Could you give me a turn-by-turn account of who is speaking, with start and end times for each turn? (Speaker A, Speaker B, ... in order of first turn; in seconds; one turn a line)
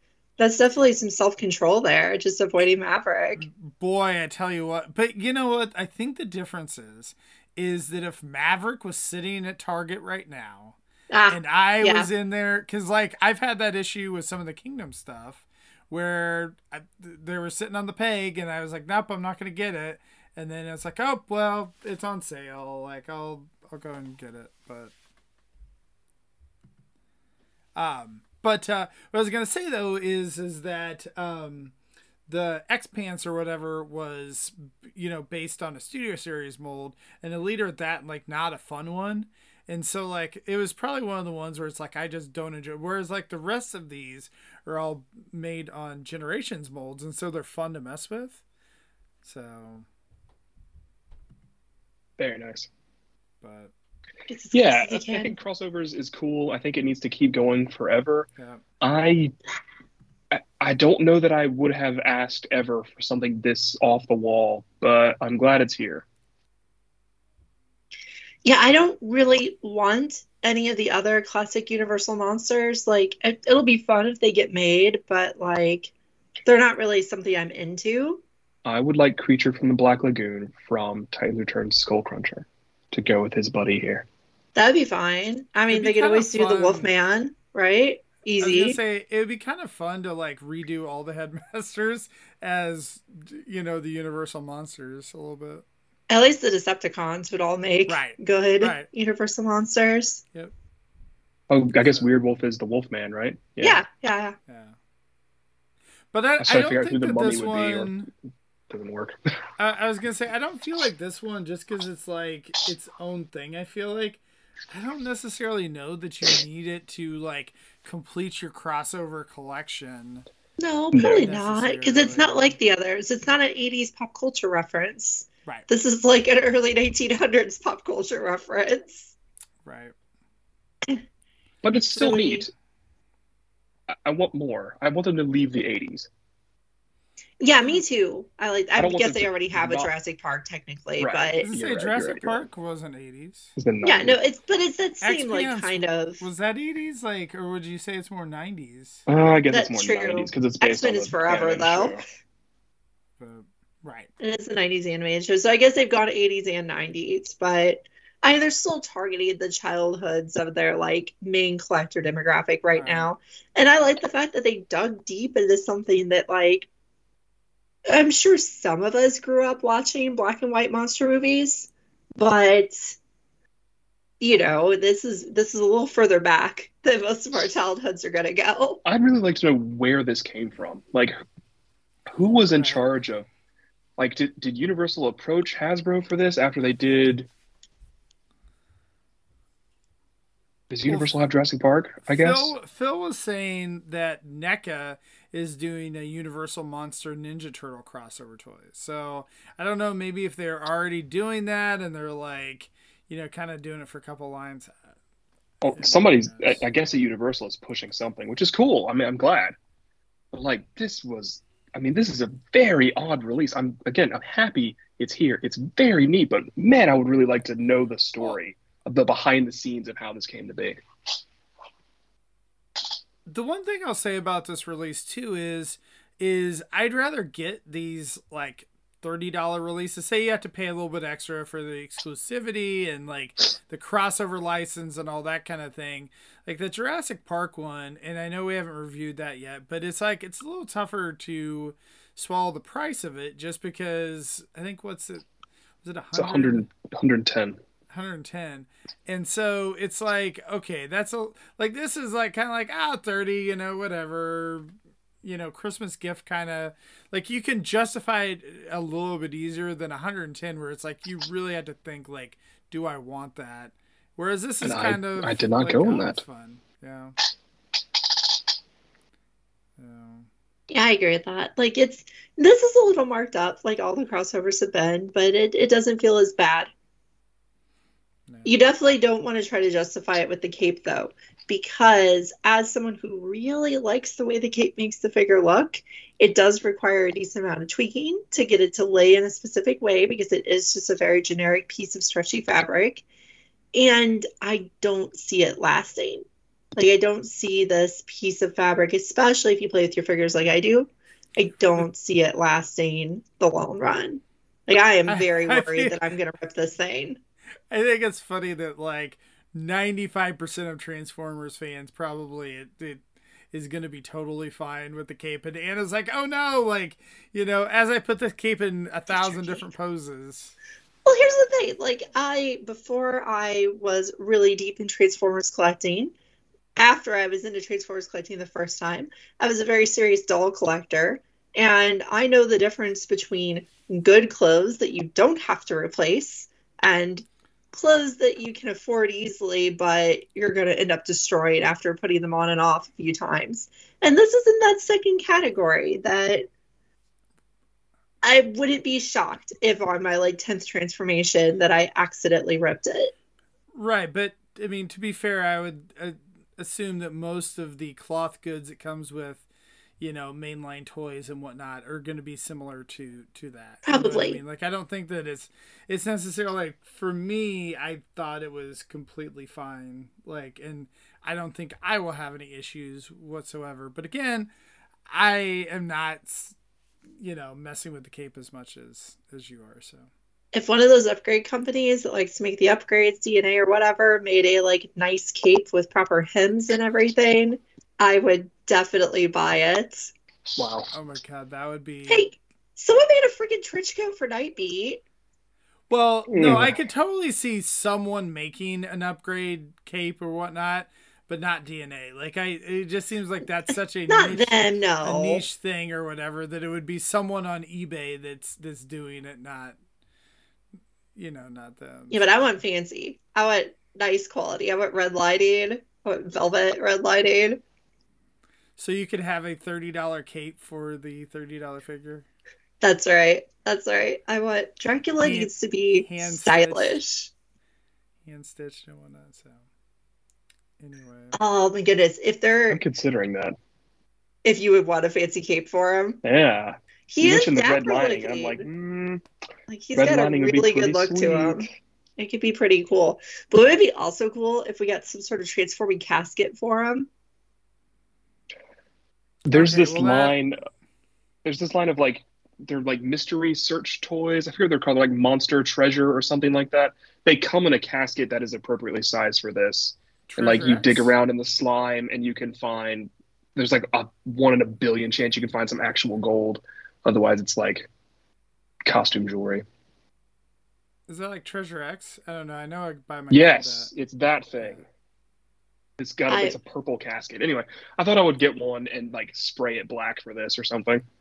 Speaker A: 0.4-3.4
Speaker B: 3.4-10.8
Speaker A: 11.1-12.1
Speaker B: 11.3-24.9
Speaker B: 27.8-31.7
Speaker B: 32.3-48.4
Speaker B: 49.2-49.9
Speaker C: 52.2-52.7
Speaker B: 53.4-53.7
Speaker A: 54.3-55.3
Speaker C: 54.5-58.3
Speaker B: 58.4-58.6
Speaker C: 58.8-59.3
Speaker C: 60.3-66.0
Speaker A: 68.4-75.9
Speaker A: 76.4-78.2
Speaker C: 78.6-84.0
Speaker A: 84.5-88.8
Speaker B: 85.7-86.9
Speaker B: 88.4-95.6
Speaker A: 96.1-100.2
Speaker B: 97.9-98.9
Speaker C: 101.5-103.8
Speaker B: 101.7-102.2
Speaker A: 103.6-104.4
Speaker B: 104.5-104.8
Speaker B: 106.1-108.1
Speaker C: 106.4-108.0
Speaker C: 108.7-109.2
Speaker B: 109.6-120.3
Speaker A: 120.6-129.1
Speaker C: 120.9-121.3
Speaker B: 121.1-122.5
Speaker B: 129.6-129.9
Speaker C: 131.6-132.5
Speaker A: 131.9-132.5
Speaker C: 133.9-136.1
Speaker A: 137.4-141.5
Speaker C: 138.8-139.9
Speaker C: 141.0-142.5
Speaker B: 141.4-143.6
Speaker C: 143.6-144.2
Speaker A: 143.8-146.2
Speaker B: 145.0-149.1
Speaker C: 149.1-152.0
Speaker A: 149.5-152.0
Speaker B: 153.2-154.1
Speaker A: 154.2-166.7
Speaker B: 162.8-163.1
Speaker A: 167.9-173.0
Speaker A: 174.2-178.8
Speaker C: 178.8-181.2
Speaker C: 182.1-183.3
Speaker B: 182.5-182.8
Speaker C: 184.0-187.3
Speaker C: 190.7-192.5
Speaker B: 190.9-191.2
Speaker B: 192.0-204.8
Speaker C: 205.6-209.5
Speaker B: 205.7-206.6
Speaker C: 210.3-220.8
Speaker B: 223.3-245.2
Speaker B: 245.8-246.7
Speaker C: 246.2-247.6
Speaker B: 247.9-267.1
Speaker C: 264.6-266.2
Speaker B: 269.8-270.3
Speaker A: 270.7-276.7
Speaker B: 278.3-278.6
Speaker A: 278.4-293.0
Speaker A: 293.7-296.2
Speaker A: 296.8-307.2
Speaker B: 305.1-305.9
Speaker B: 307.7-320.6
Speaker A: 319.1-319.7
Speaker A: 321.1-326.1
Speaker A: 326.8-346.5
Speaker A: 348.2-353.1
Speaker B: 353.7-359.4
Speaker B: 360.0-374.5
Speaker A: 363.8-364.4
Speaker B: 375.1-376.5
Speaker B: 377.2-380.1
Speaker A: 380.5-390.1
Speaker C: 390.6-390.9
Speaker B: 390.9-392.3
Speaker A: 392.1-395.0
Speaker B: 395.9-409.8
Speaker C: 396.3-396.7
Speaker A: 404.1-405.4
Speaker B: 411.1-412.4
Speaker A: 412.1-417.6
Speaker B: 418.8-422.3
Speaker A: 422.8-427.3
Speaker B: 425.2-427.0
Speaker B: 428.2-429.6
Speaker B: 430.8-431.4
Speaker A: 431.4-432.8
Speaker C: 432.7-433.6
Speaker A: 434.4-436.2
Speaker C: 436.2-439.2
Speaker A: 437.1-438.7
Speaker A: 439.7-441.7
Speaker C: 439.9-441.7
Speaker A: 442.2-447.1
Speaker C: 449.4-450.6
Speaker B: 449.5-450.4
Speaker C: 451.4-467.9
Speaker B: 460.3-461.1
Speaker C: 468.8-469.6
Speaker B: 471.1-473.9
Speaker C: 473.3-474.8
Speaker B: 474.6-474.8
Speaker C: 476.0-481.0
Speaker A: 476.3-476.6